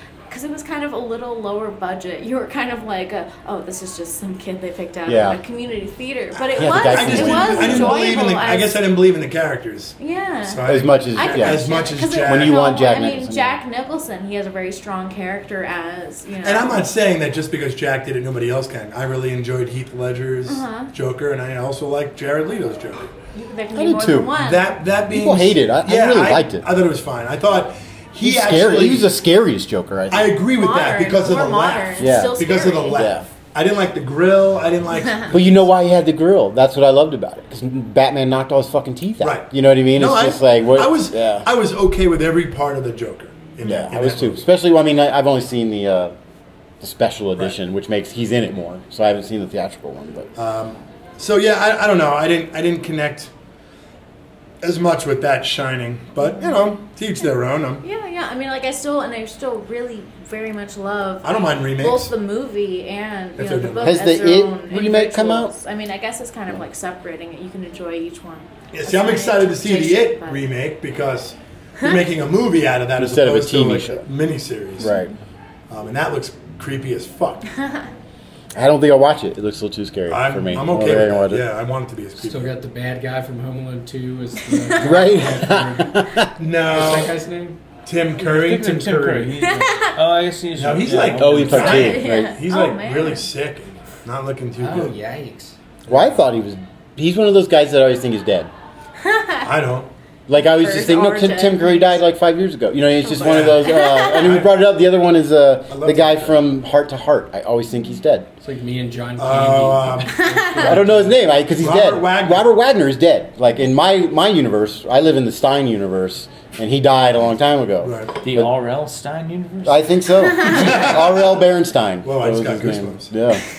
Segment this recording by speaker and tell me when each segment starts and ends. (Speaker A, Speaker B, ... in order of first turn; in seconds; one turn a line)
Speaker A: 0.3-8.7
Speaker B: 5.1-5.4
Speaker C: 6.4-12.6
Speaker B: 6.5-8.2
Speaker A: 10.0-16.9
Speaker B: 10.6-13.6
Speaker C: 16.4-23.1
Speaker A: 20.5-20.9
Speaker A: 23.4-24.7
Speaker B: 23.7-24.3
Speaker C: 24.3-29.1
Speaker B: 25.1-26.6
Speaker B: 28.2-30.4
Speaker C: 30.1-35.6
Speaker A: 30.5-33.1
Speaker B: 32.0-33.2
Speaker B: 35.3-41.5
Speaker C: 39.2-44.4
Speaker B: 43.6-46.1
Speaker B: 46.8-50.3
Speaker C: 50.4-53.3
Speaker C: 54.6-57.8
Speaker A: 57.8-70.4
Speaker C: 61.2-62.1
Speaker C: 63.4-64.1
Speaker B: 63.8-65.5
Speaker C: 68.7-74.9
Speaker B: 73.0-74.0
Speaker B: 74.8-75.1
Speaker C: 75.7-77.5
Speaker B: 78.5-81.4
Speaker C: 80.1-82.6
Speaker D: 82.2-86.1
Speaker A: 84.5-84.9
Speaker B: 84.8-86.3
Speaker C: 86.4-87.2
Speaker D: 86.6-87.6
Speaker C: 87.8-89.1
Speaker D: 88.2-89.8
Speaker E: 88.2-91.9
Speaker A: 89.5-90.0
Speaker C: 90.5-95.0
Speaker B: 91.2-92.4
Speaker A: 91.6-93.2
Speaker D: 94.6-95.5
Speaker B: 95.9-98.5
Speaker A: 99.0-99.5
Speaker C: 99.4-99.9
Speaker B: 100.3-108.3
Speaker A: 100.3-102.0
Speaker C: 103.0-104.6
Speaker A: 103.6-104.2
Speaker C: 105.7-106.4
Speaker D: 108.4-111.2
Speaker C: 109.2-110.2
Speaker A: 110.1-110.6
Speaker B: 110.6-118.5
Speaker C: 111.6-112.5
Speaker C: 117.8-118.1
Speaker E: 118.2-119.8
Speaker B: 119.6-123.4
Speaker C: 120.4-121.4
Speaker C: 122.0-123.1